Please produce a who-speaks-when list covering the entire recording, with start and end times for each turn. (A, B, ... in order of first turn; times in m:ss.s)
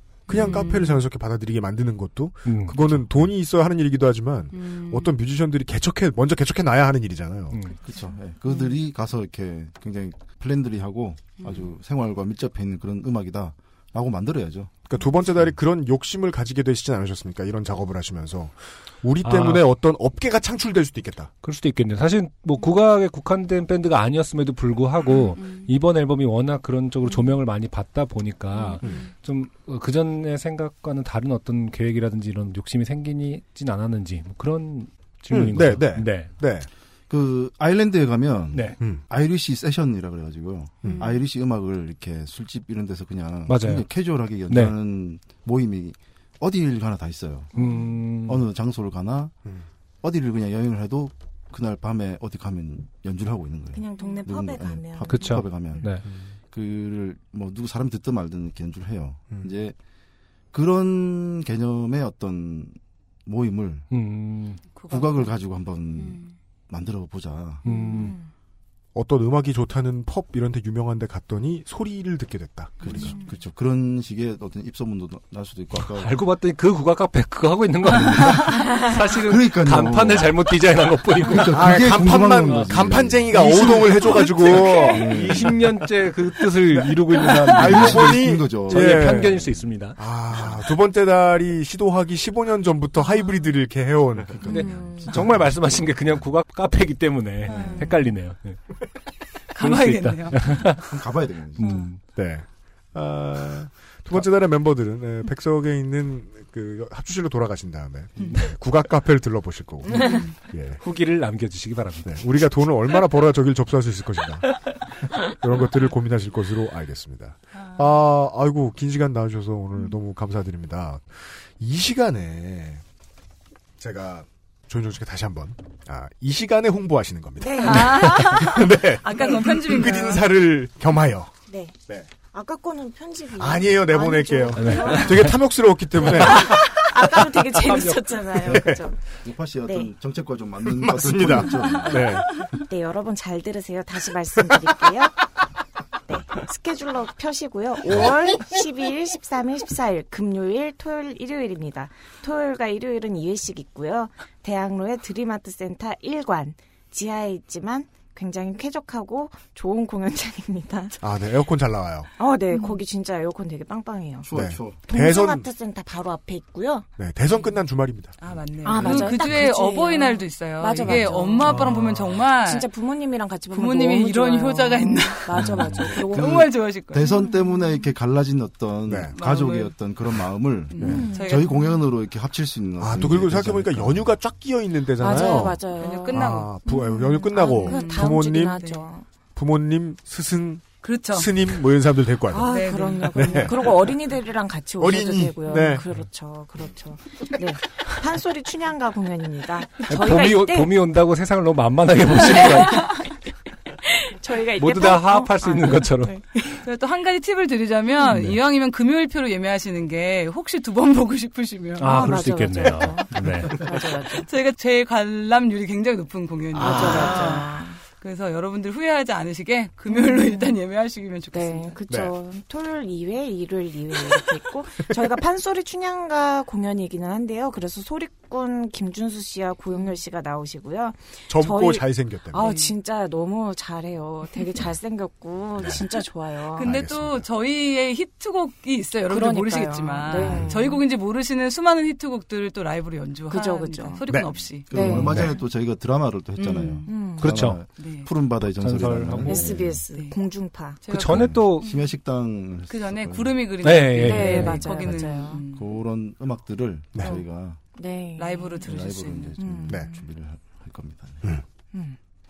0:00.3-0:07.6 A
0:00.3-0:01.0 B
0:00.3-0:00.6 C
0:02.5-0:03.3 D
0:04.6-0:05.1 B
0:07.5-0:07.8 D
0:07.8-0:14.8 E
0:11.4-0:11.6 B
0:14.9-0:21.3 A
0:19.2-0:19.7 D
0:21.4-0:36.3 D
0:35.3-0:36.7 A
0:37.1-0:47.5 E
0:38.5-0:38.8 D
0:40.8-0:41.1 A
0:43.5-0:43.9 D
0:44.5-0:44.8 D
0:47.6-0:48.4 D
0:48.2-0:49.4 E
0:50.0-0:55.9 E
0:53.7-0:55.9 C
0:55.1-0:56.1 D
0:56.5-0:59.8 E
1:00.5-1:03.9 E
1:03.9-1:04.6 D
1:04.7-1:05.4 B
1:04.9-1:07.6 E
1:07.6-1:08.2 D
1:07.7-1:08.3 C
1:07.7-1:08.0 B
1:09.0-1:13.1 A
1:12.8-1:13.4 C
1:12.9-1:16.2 E
1:15.9-1:22.8 D
1:19.3-1:20.4 E
1:21.2-1:25.7 E
1:21.5-1:25.4 A
1:23.3-1:30.0 D
1:26.7-1:34.4 A
1:27.2-1:29.6 E
1:34.3-1:36.1 E
1:34.4-1:35.2 C
1:34.5-1:38.7 D
1:37.5-1:38.1 C
1:37.5-1:37.9 B
1:39.5-1:40.8 B
1:39.6-1:41.0 D
1:40.9-1:41.8 E
1:41.6-1:42.0 D
1:42.1-1:50.8 A
1:49.9-1:50.3 B
1:50.8-1:52.3 D
1:52.0-1:54.5 A
1:55.2-2:02.8 A
2:03.8-2:11.3 A
2:07.4-2:08.5 C
2:07.6-2:10.3 B
2:11.5-2:15.4 C
2:13.4-2:16.6 A
2:14.6-2:15.4 D
2:16.1-2:19.0 C
2:18.5-2:18.8 A
2:19.2-2:22.0 E
2:19.6-2:19.9 C
2:20.8-2:22.4 A
2:21.3-2:25.2 C
2:26.1-2:41.0 C
2:41.0-2:42.1 A
2:42.2-2:44.3 C
2:44.2-2:44.8 E
2:44.3-2:45.5 A
2:44.9-2:46.9 C
2:47.0-2:48.2 A
2:48.2-2:52.7 B
2:48.6-2:57.8 C
2:51.5-2:51.9 A
2:53.5-2:57.1 B
2:56.1-3:04.1 E
2:58.9-2:59.2 A
2:59.1-2:59.9 B
3:00.7-3:01.8 B
3:00.8-3:01.8 C
3:02.8-3:08.6 A
3:05.0-3:09.1 C
3:05.0-3:06.8 B
3:07.3-3:08.9 B
3:09.4-3:12.5 A
3:10.8-3:11.3 B
3:12.3-3:20.8 C
3:12.5-3:13.5 B
3:13.2-3:13.6 A
3:14.8-3:15.8 A
3:19.9-3:22.9 D
3:22.3-3:22.9 C
3:23.9-3:26.3 C
3:24.6-3:26.6 D
3:26.6-3:32.3 B
3:28.0-3:28.4 D
3:31.8-3:33.6 D
3:31.8-3:34.3 C
3:33.7-3:41.8 B
3:36.6-3:37.8 C
3:36.6-3:37.0 A
3:36.6-3:37.3 D
3:39.9-3:40.6 C
3:41.3-3:56.7 C
3:51.3-3:52.5 A
3:52.4-3:52.7 B
3:56.6-4:05.0 B
3:56.6-3:57.3 A
3:59.1-4:00.8 C
4:00.2-4:00.5 A
4:03.3-4:04.0 C
4:04.7-4:09.8 E
4:04.7-4:05.4 C
4:05.0-4:05.4 D
4:06.4-4:07.4 C
4:06.5-4:06.8 B
4:07.2-4:07.6 D
4:07.8-4:08.2 B
4:08.6-4:09.8 D
4:09.2-4:10.8 C
4:09.9-4:10.2 B
4:10.8-4:11.9 B
4:10.9-4:11.7 D
4:11.1-4:13.4 E
4:12.7-4:15.7 B
4:13.6-4:14.6 D
4:13.9-4:15.5 C
4:15.5-4:17.6 E
4:17.0-4:17.2 A
4:17.0-4:17.3 B
4:17.7-4:20.0 C
4:18.2-4:19.5 B
4:18.6-4:21.3 E